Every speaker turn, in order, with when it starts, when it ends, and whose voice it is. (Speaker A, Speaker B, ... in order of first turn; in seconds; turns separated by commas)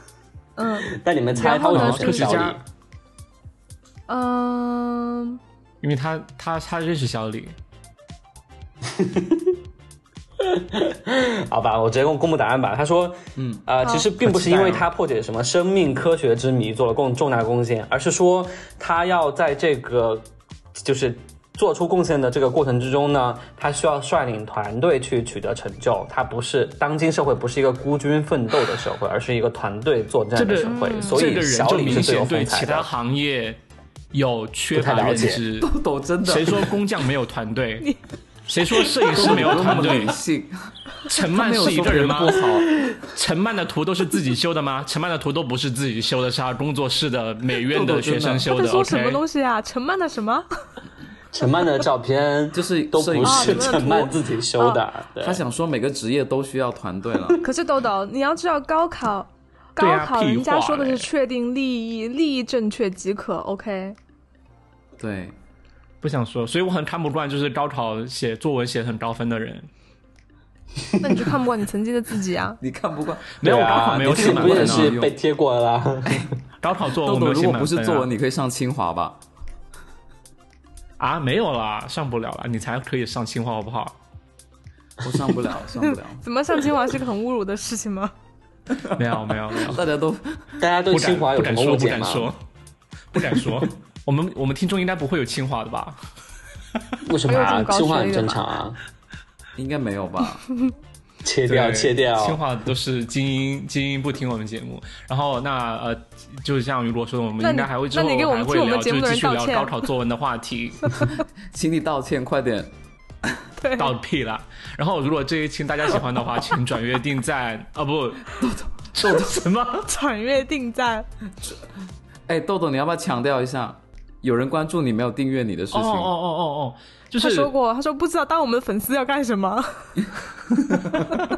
Speaker A: 0.6-2.4, Speaker B: 0.8-2.6, Speaker C: 1.5-2.6, Speaker A: 4.1-5.4, Speaker C: 5.8-7.5, Speaker B: 8.9-9.6, Speaker B: 10.4-20.2, Speaker D: 13.4-13.6, Speaker A: 13.8-14.1, Speaker C: 14.2-14.8, Speaker B: 20.8-32.9, Speaker C: 30.4-33.6, Speaker A: 30.6-31.3, Speaker C: 34.1-35.7, Speaker B: 34.7-35.4, Speaker D: 35.6-36.7, Speaker C: 36.2-37.9, Speaker C: 38.5-40.2, Speaker A: 38.9-39.5, Speaker D: 39.1-42.7, Speaker C: 41.1-42.5, Speaker C: 43.0-49.2, Speaker D: 47.7-48.5, Speaker A: 48.5-50.5, Speaker B: 51.3-55.4, Speaker D: 52.5-53.8, Speaker A: 53.2-54.8, Speaker D: 55.2-57.4, Speaker A: 57.4-64.0, Speaker C: 59.8-61.1, Speaker D: 65.0-65.3, Speaker C: 66.0-69.7, Speaker A: 71.0-72.6, Speaker D: 72.6-75.1, Speaker C: 73.4-75.0, Speaker B: 73.4-76.3, Speaker C: 76.6-78.1, Speaker D: 77.0-79.2, Speaker C: 81.0-84.0, Speaker D: 85.0-86.2, Speaker A: 85.8-88.1, Speaker C: 89.0-89.8, Speaker D: 89.5-90.6, Speaker B: 90.6-92.3, Speaker C: 90.9-92.4, Speaker C: 93.1-96.0, Speaker B: 97.0-98.8, Speaker A: 97.3-98.4, Speaker D: 99.6-100.4, Speaker B: 101.2-102.4, Speaker C: 101.5-111.1, Speaker A: 107.4-109.7, Speaker A: 110.9-111.1, Speaker D: 111.5-112.7, Speaker A: 113.6-113.9, Speaker C: 113.8-118.4, Speaker D: 118.4-119.4, Speaker C: 118.9-119.9, Speaker A: 119.9-121.1, Speaker D: 122.3-126.1, Speaker C: 125.7-127.5, Speaker A: 127.2-130.1